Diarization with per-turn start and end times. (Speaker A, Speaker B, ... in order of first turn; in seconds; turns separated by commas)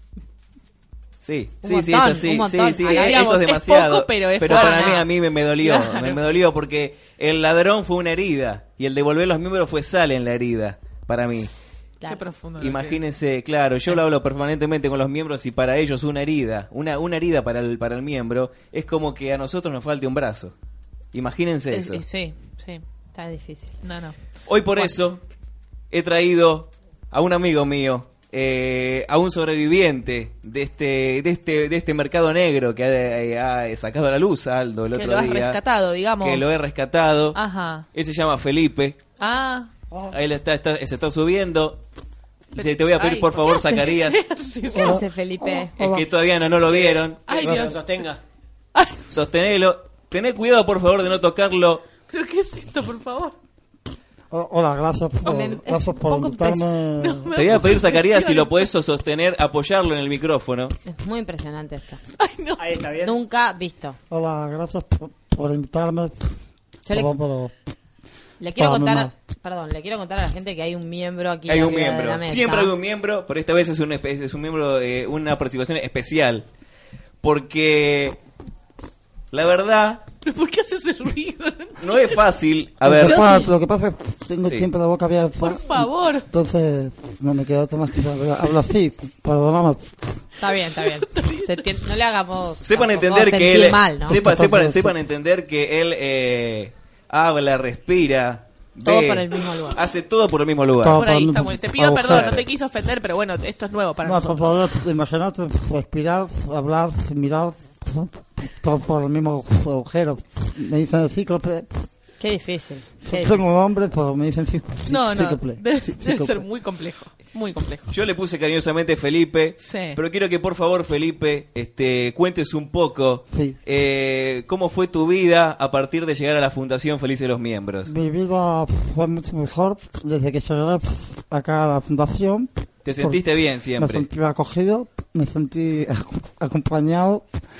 Speaker A: 1.2-11.5, Speaker B: 1.6-3.4, Speaker C: 2.9-5.1, Speaker B: 4.5-5.0, Speaker C: 5.6-6.2, Speaker C: 12.1-13.0, Speaker A: 12.6-20.5, Speaker A: 21.1-22.0, Speaker C: 21.7-22.8, Speaker B: 23.1-23.8, Speaker C: 23.8-24.1, Speaker A: 24.5-25.2, Speaker A: 25.9-35.6, Speaker C: 34.9-36.6, Speaker A: 36.2-37.4, Speaker C: 37.3-37.8, Speaker A: 37.9-39.0, Speaker C: 39.2-39.7, Speaker A: 40.1-41.8, Speaker A: 42.5-44.2, Speaker C: 42.5-45.0, Speaker B: 44.7-45.7, Speaker D: 44.8-46.0, Speaker A: 45.8-47.3, Speaker E: 46.6-48.2, Speaker C: 47.3-47.9, Speaker D: 47.4-47.7, Speaker C: 48.7-49.0, Speaker A: 49.1-51.9, Speaker C: 52.1-53.4, Speaker D: 54.3-57.7, Speaker B: 55.2-56.8, Speaker C: 57.0-58.7, Speaker A: 57.3-60.7, Speaker B: 60.9-62.0, Speaker C: 62.2-62.6, Speaker E: 62.6-63.1, Speaker B: 63.0-64.0, Speaker D: 64.1-66.4, Speaker B: 66.8-67.1, Speaker D: 66.9-67.5, Speaker B: 68.4-72.7, Speaker D: 68.5-69.1, Speaker A: 71.5-76.5, Speaker A: 77.2-78.2, Speaker A: 79.3-80.0, Speaker C: 80.2-82.2, Speaker A: 81.8-83.4, Speaker D: 82.8-90.0, Speaker C: 83.0-83.5, Speaker A: 84.4-84.7, Speaker C: 85.4-86.3, Speaker B: 90.4-94.2, Speaker C: 91.1-91.7, Speaker A: 92.6-101.0, Speaker D: 94.1-95.0, Speaker B: 98.8-99.8, Speaker D: 100.8-102.4, Speaker C: 100.9-104.6, Speaker A: 102.1-102.4, Speaker D: 104.0-111.9, Speaker B: 112.2-113.5, Speaker D: 113.0-116.4, Speaker C: 114.9-117.9, Speaker A: 117.9-127.9, Speaker C: 119.6-120.0, Speaker D: 123.3-123.6, Speaker D: 127.8-137.4, Speaker A: 132.8-134.1